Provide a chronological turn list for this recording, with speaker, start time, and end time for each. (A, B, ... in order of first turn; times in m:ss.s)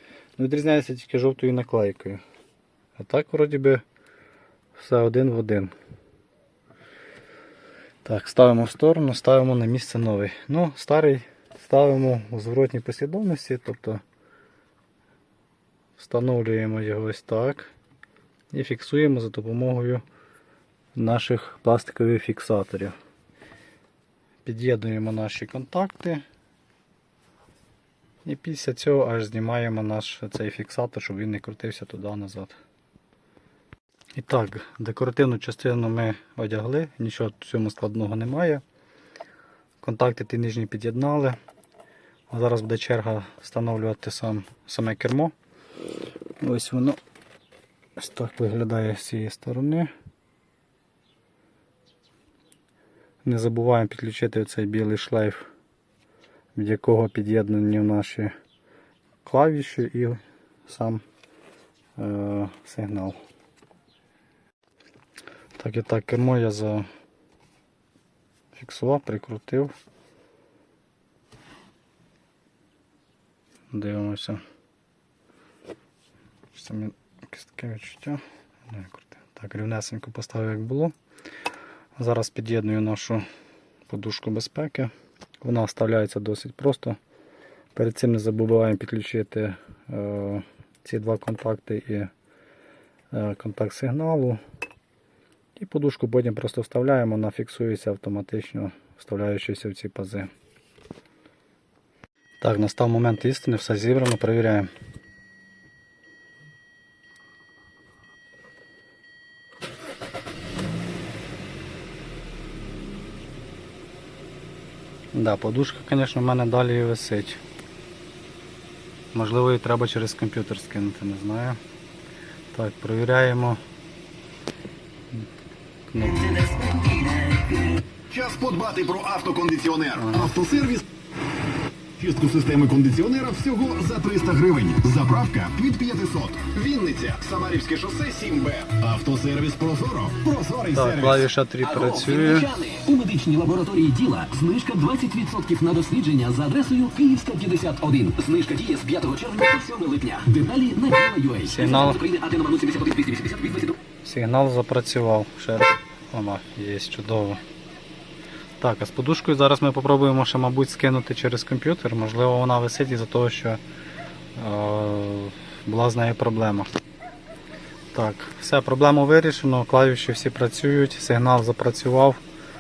0:00.4-0:02.2 A
0:03.0-0:03.8 A
0:04.8-0:05.7 A
0:08.0-0:14.0 A
0:16.0-0:17.7 A
0:18.5-0:20.0 A
0:21.0-0:23.0 A
0:24.4-0:26.2 A
0:28.2-0:32.6 A
0:34.2-0:38.6 A
0:39.8-0:41.4 A
0:42.3-0:45.3 A
0:46.4-0:47.0 A
0:48.0-0:49.9 A
0:53.2-0:55.4 A
0:56.6-0:58.3 A
0:59.2-1:01.0 A
1:02.0-1:03.2 A
1:05.6-1:06.9 A
1:08.5-1:09.7 A
1:13.7-1:14.4 A
1:16.5-1:21.0 A
1:22.0-1:23.2 A
1:23.9-1:27.0 A
1:27.8-1:32.1 A
1:33.1-1:34.4 A
1:35.6-1:40.3 A
1:42.4-1:44.7 A
1:55.1-1:57.4 A
1:59.1-2:01.6 A
2:02.5-2:03.6 A
2:05.9-2:06.5 A
2:06.5-2:07.4 B
2:08.1-2:10.9 C
2:10.0-2:10.4 A
2:12.0-2:21.2 C
2:20.7-2:22.6 A
2:21.8-2:33.8 B
2:31.4-2:32.1 A
2:34.0-2:37.4 A
2:38.6-2:43.6 A
2:44.4-2:46.7 A
2:47.9-2:52.2 A